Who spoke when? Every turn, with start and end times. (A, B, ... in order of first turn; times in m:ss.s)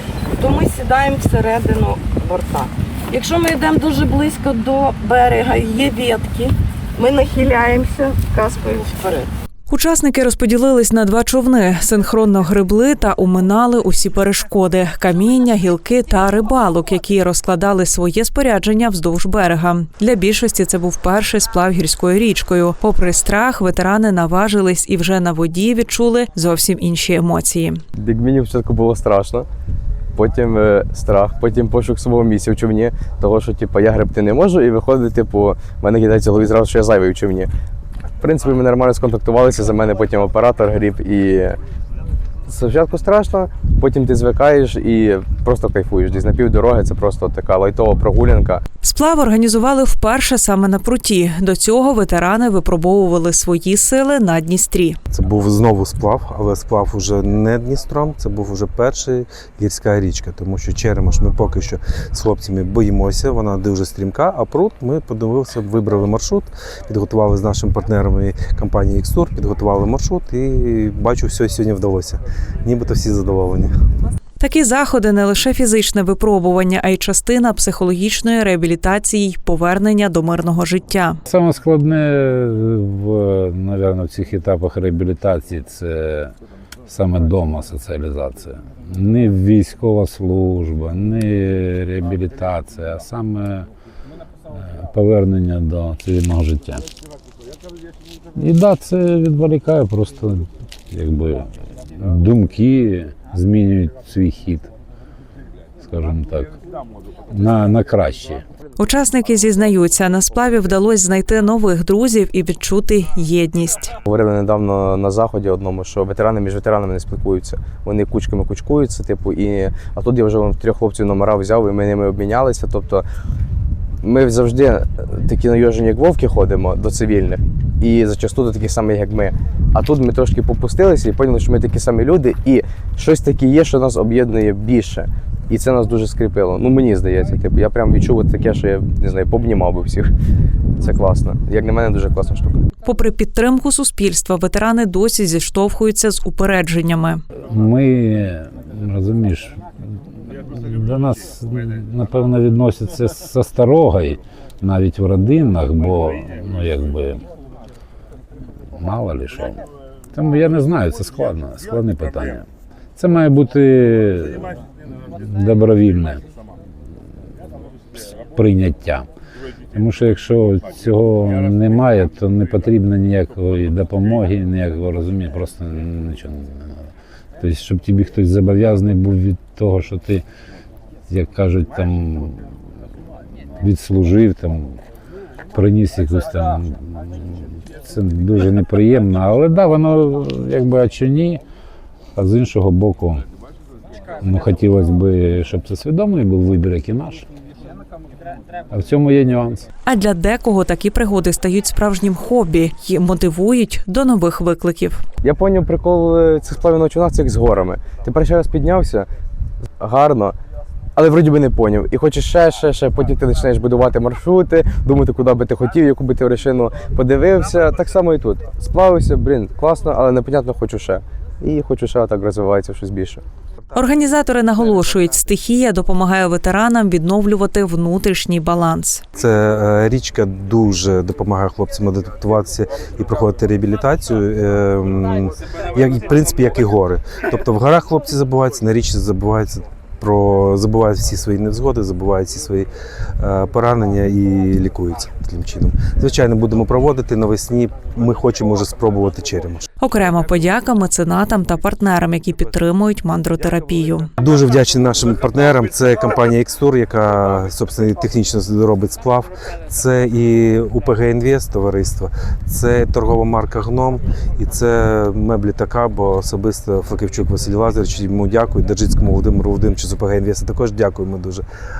0:00.4-0:09.3 A
0:09.7-0:27.8 B
0:28.0-0:29.5 C
0:30.2-0:37.5 C
0:38.2-0:41.6 C
0:42.5-0:48.6 C
0:48.8-0:55.0 B
0:55.1-1:13.7 D
1:14.4-1:21.2 B
1:21.3-1:26.3 E
1:26.9-1:33.7 E
1:34.5-1:36.9 E
1:38.4-1:44.7 E
1:45.8-1:46.6 E
1:47.3-1:48.4 E
1:48.8-1:54.0 B
1:54.1-2:03.0 C
2:04.0-2:20.1 C
2:20.8-2:22.6 C
2:22.8-2:27.2 B
2:27.5-2:29.6 E
2:30.2-2:37.2 E
2:38.7-2:46.2 E
2:48.3-2:49.1 E
2:49.7-2:56.8 E
2:57.4-3:00.2 E
3:01.1-3:02.5 E
3:03.6-3:04.8 E
3:05.5-3:11.4 E
3:12.2-3:13.2 E
3:14.2-3:17.3 E
3:18.7-3:19.7 E
3:19.8-3:25.0 B
3:25.2-3:29.1 C
3:29.8-3:30.4 C
3:31.0-3:43.2 C
3:43.8-3:49.0 B
3:49.2-4:02.7 D
4:03.2-4:09.7 D
4:09.8-4:14.1 B
4:14.2-4:31.4 D